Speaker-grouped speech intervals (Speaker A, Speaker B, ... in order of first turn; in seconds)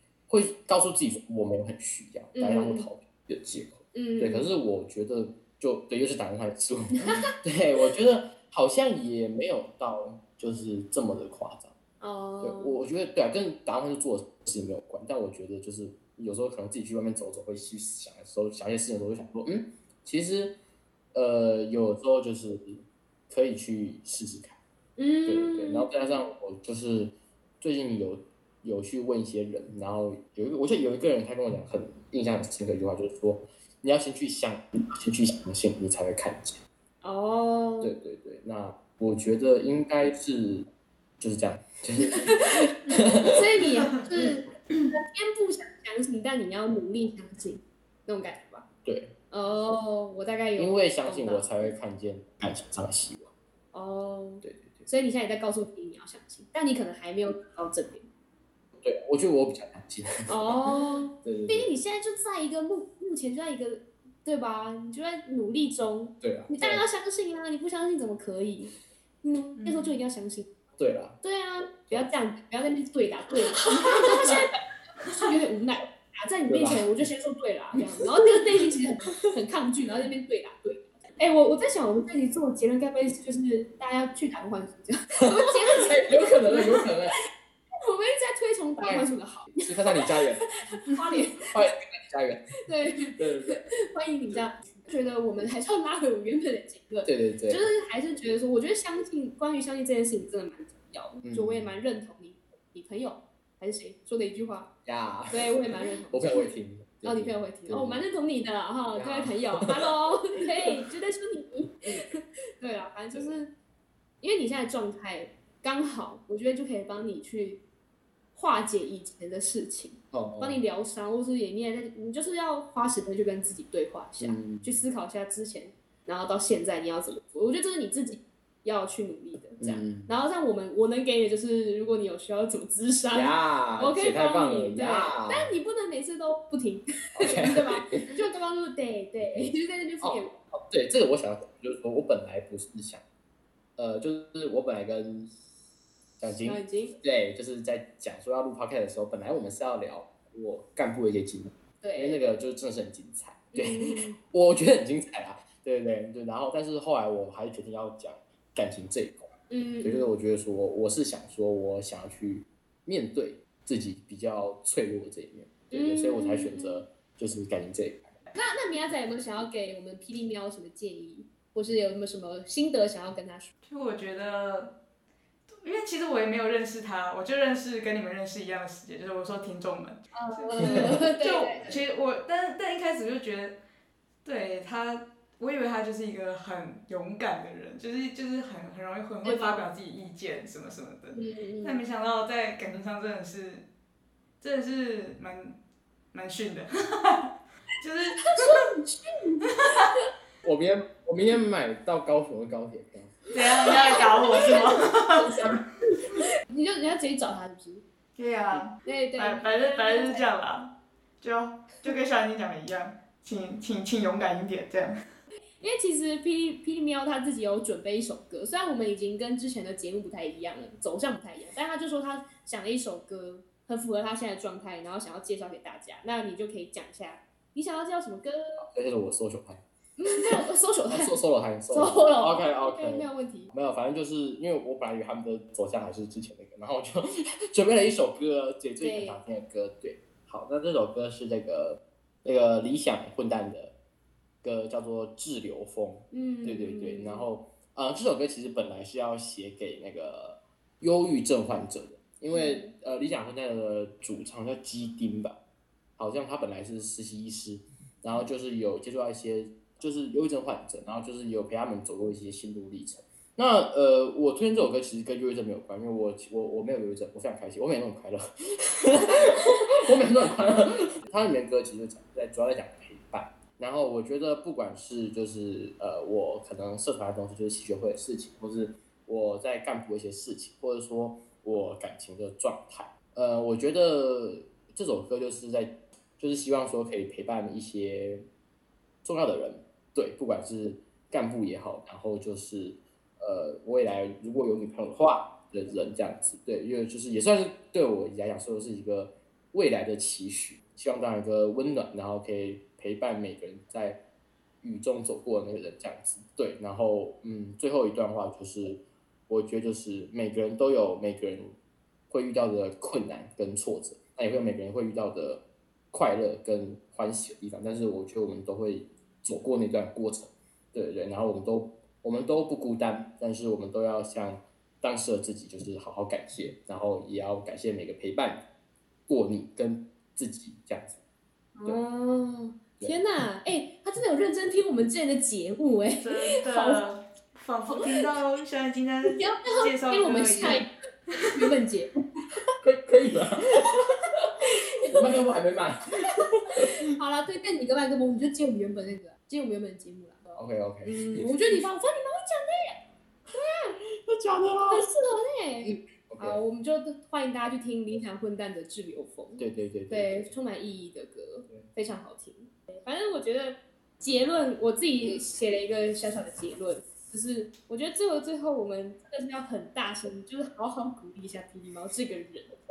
Speaker A: 0.3-11.7, 12.4-20.6, 21.1-24.6, 25.2-36.6, 37.8-40.6, 41.2-43.4, 48.8-49.1, 50.6-53.3, 54.4-54.9, 58.8-60.6, 61.2-61.7, 66.2-66.8, 70.8-71.2, 76.5-77.0, 85.2-87.2, 88.8-90.4, 91.4-92.4, 93.1-93.6, 97.0-97.7, 101.2-101.8, 104.8-108.0, 108.9-109.9, 120.1-120.6, 124.2-124.8, 129.6-130.1, 133.1-135.5, 137.1-138.1, 140.0-143.0, 143.8-145.3, 146.2-168.2, 200.4-203.3, 228.6-229.6, 230.9-243.7, 244.4-255.4, 256.0-288.2, 289.0-304.0, 304.6-311.5, 312.1-328.4, 329.1-330.9, 342.6-344.2, 344.8-346.7, 350.3-351.6, 353.9-354.9, 355.6-356.4, 359.4-360.3
Speaker B: 2.3-2.9, 3.9-4.5, 7.0-7.3, 12.0-12.8, 25.0-25.9, 37.0-37.9, 42.1-42.6, 43.2-48.6, 49.3-51.7, 53.7-58.0, 60.3-70.5, 71.2-86.9, 87.8-91.5, 92.7-104.7, 105.3-106.5, 107.0-113.5, 114.2-117.6, 118.3-140.4, 146.4-146.9, 151.8-152.2, 153.5-154.2, 159.5-160.1, 165.7-166.8, 168.3-173.5, 180.1-181.8, 189.2-189.6, 191.1-191.8, 198.3-199.5, 203.7-207.8, 208.8-210.2, 215.6-228.4, 230.0-231.1, 231.7-233.5, 238.8-239.2, 246.1-247.3, 252.3-252.7, 331.6-336.8, 337.7-338.1, 339.1-341.9, 344.4-345.0, 346.5-352.8, 353.3-353.8, 354.7-372.5
Speaker C: 69.6-70.0, 173.6-174.7, 175.5-183.6, 184.2-193.7, 194.4-195.6, 196.1-198.7, 199.5-199.9, 203.3-205.4, 208.2-215.0, 336.0-341.4